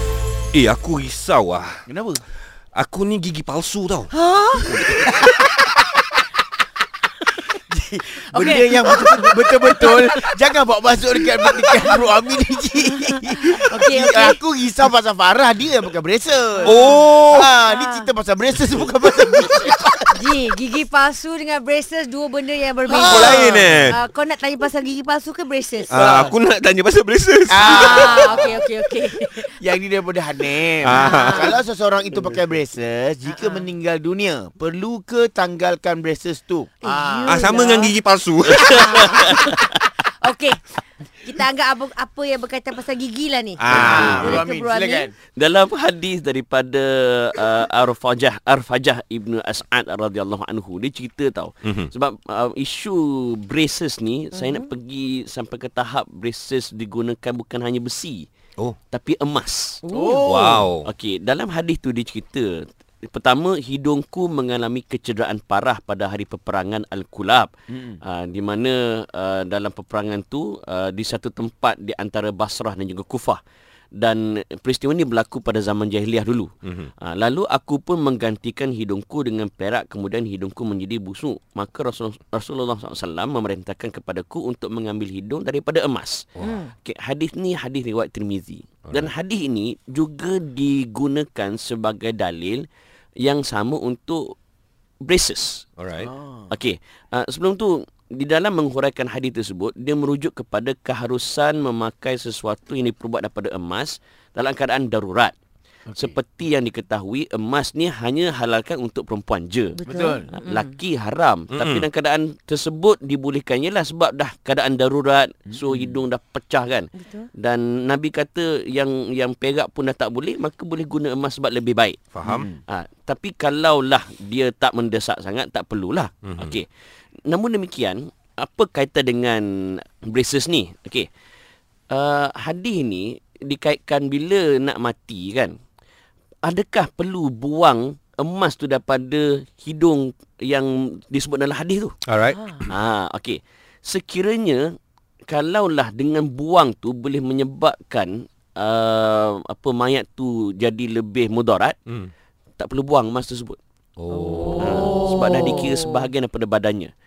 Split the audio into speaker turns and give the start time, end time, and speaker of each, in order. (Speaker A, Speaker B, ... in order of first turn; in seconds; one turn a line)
Speaker A: 0.5-1.8
Speaker B: 1.9-2.2
Speaker A: 2.7-4.1
Speaker C: 4.2-4.5
Speaker B: 4.5-5.9
Speaker B: 7.5-20.1
Speaker C: 8.3-10.1
Speaker C: 11.4-11.9
Speaker C: 12.8-14.4
Speaker C: 16.6-17.1
Speaker A: 16.6-17.5
Speaker C: 17.6-18.1
Speaker C: 20.1-26.0
Speaker B: 22.9-23.6
Speaker A: 22.9-24.0
Speaker A: 25.9-28.2
Speaker B: 25.9-26.3
Speaker B: 27.5-28.6
Speaker C: 27.6-29.5
Speaker B: 29.5-37.7
Speaker A: 30.8-31.5
Speaker C: 30.9-31.6
Speaker C: 33.3-33.7
Speaker C: 36.8-37.9
Speaker A: 37.2-39.4
Speaker D: 38.5-39.6
Speaker C: 38.6-45.1
Speaker A: 43.6-44.4
Speaker B: 43.7-45.1
Speaker D: 43.8-44.3
Speaker D: 45.4-58.3
Speaker C: 54.3-54.7
Speaker D: 58.9-59.8
Speaker C: 59.9-60.2
Speaker B: 59.9-60.7
Speaker A: 60.2-60.9
Speaker D: 60.8-67.5
Speaker B: 67.7-68.0
Speaker D: 68.0-73.4
Speaker D: 74.0-86.2
Speaker C: 86.4-86.7
Speaker D: 86.8-92.6
Speaker D: 93.2-94.3
Speaker D: 95.0-95.6
Speaker A: 95.8-96.1
Speaker B: 96.0-96.5
Speaker D: 96.5-105.3
Speaker D: 106.0-122.0
Speaker C: 109.7-110.7
Speaker B: 109.9-110.3
Speaker A: 111.5-111.8
Speaker B: 115.5-115.9
Speaker C: 117.0-117.3
Speaker A: 122.1-122.5
Speaker B: 122.2-122.5
Speaker D: 122.7-126.7
Speaker A: 126.2-126.6
Speaker D: 127.3-131.1
Speaker D: 131.9-135.6
Speaker D: 136.4-141.9
Speaker A: 142.1-142.4
Speaker C: 142.3-142.6
Speaker D: 142.7-144.7
Speaker D: 145.3-151.8
Speaker D: 152.6-153.6
Speaker A: 154.0-155.0
Speaker C: 154.1-156.0
Speaker D: 154.6-156.9